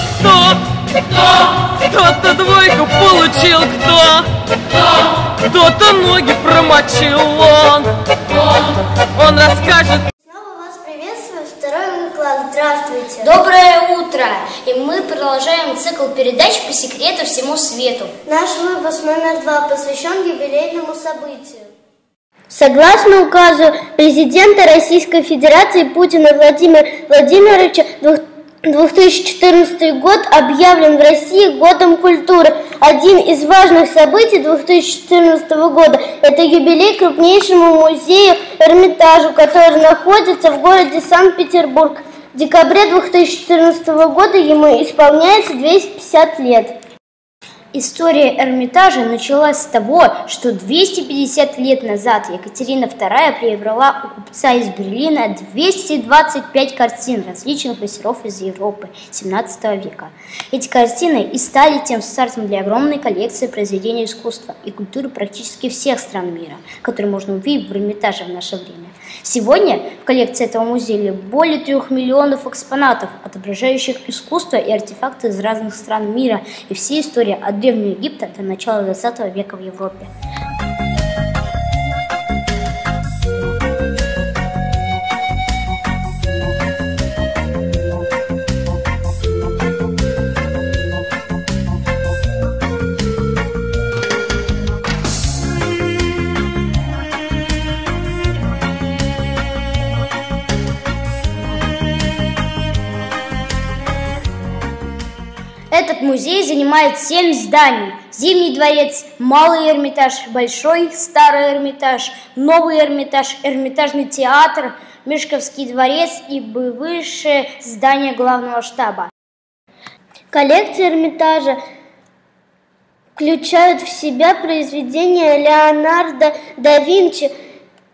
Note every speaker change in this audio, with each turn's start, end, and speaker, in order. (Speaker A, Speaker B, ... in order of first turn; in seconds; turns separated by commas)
Speaker A: 0.1-8.4, Speaker A: 9.1-10.1, Speaker B: 10.2-13.3, Speaker C: 13.2-18.1, Speaker B: 18.2-21.7, Speaker B: 22.5-46.7, Speaker C: 47.7-80.1, Speaker C: 105.7-119.1, Speaker B: 120.3-121.6, Speaker B: 123.2-127.3